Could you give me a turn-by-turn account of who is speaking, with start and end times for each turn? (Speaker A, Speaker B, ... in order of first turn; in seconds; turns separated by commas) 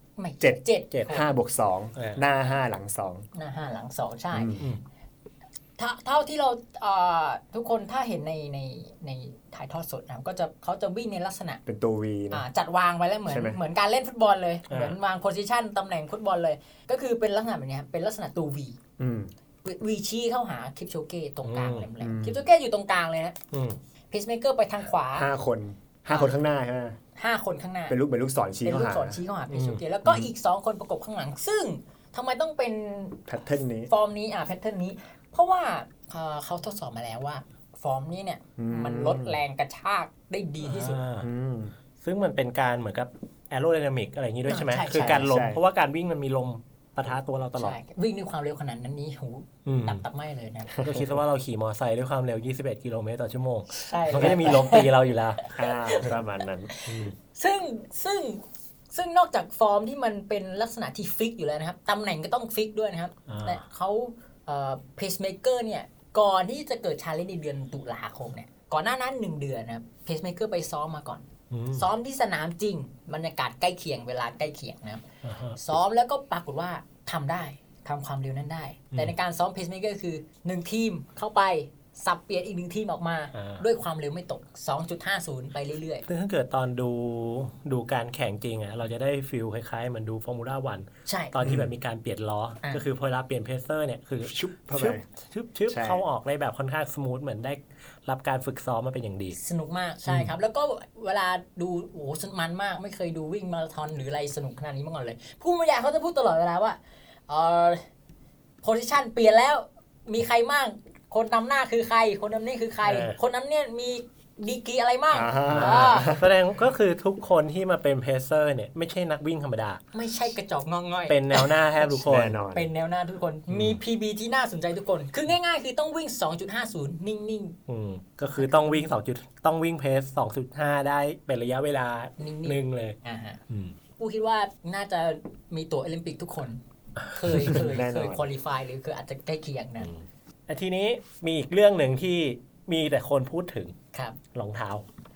Speaker A: 0.2-1.3, Speaker B: 0.4-3.2, Speaker C: 0.9-1.2, Speaker C: 1.9-2.2, Speaker A: 3.3-4.6, Speaker B: 4.3-4.6, Speaker A: 5.8-11.6, Speaker B: 11.7-12.4, Speaker A: 12.3-18.8, Speaker B: 13.3-13.6, Speaker C: 14.7-14.9, Speaker B: 19.0-19.3, Speaker A: 19.6-23.4, Speaker C: 21.4-21.9, Speaker B: 22.0-22.4, Speaker C: 23.5-23.8, Speaker A: 24.1-25.3, Speaker B: 25.1-27.0, Speaker A: 27.1-27.9, Speaker B: 27.9-29.2, Speaker A: 28.6-33.2, Speaker C: 29.5-30.1, Speaker B: 33.3-33.9, Speaker A: 33.9-41.0, Speaker B: 38.6-39.4, Speaker C: 40.6-41.3, Speaker B: 41.2-41.7, Speaker C: 42.0-47.8, Speaker A: 44.5-45.2, Speaker B: 44.9-45.6, Speaker A: 47.6-51.0, Speaker C: 49.6-50.0, Speaker C: 50.8-55.4, Speaker A: 53.7-56.1, Speaker B: 55.5-56.7, Speaker A: 56.7-75.0, Speaker C: 56.9-57.1, Speaker C: 63.3-63.6, Speaker C: 71.5-71.8, Speaker C: 75.2-75.6, Speaker A: 75.6-86.0, Speaker C: 83.3-83.6, Speaker C: 86.1-99.4, Speaker A: 91.0-91.3, Speaker B: 91.4-91.7, Speaker B: 94.2-95.0, Speaker B: 95.7-96.0, Speaker A: 99.3-107.8, Speaker A: 108.6-116.1, Speaker C: 112.8-113.2, Speaker B: 115.1-116.3, Speaker C: 115.5-119.8, Speaker A: 119.9-121.6, Speaker C: 121.1-122.4, Speaker B: 121.9-122.7, Speaker A: 122.5-127.6, Speaker C: 123.5-123.8, Speaker C: 127.7-133.0, Speaker A: 128.3-128.9, Speaker A: 132.2-133.4, Speaker C: 133.5-133.8, Speaker A: 134.0-139.9, Speaker B: 137.3-138.3, Speaker C: 139.8-143.8, Speaker C: 144.3-144.8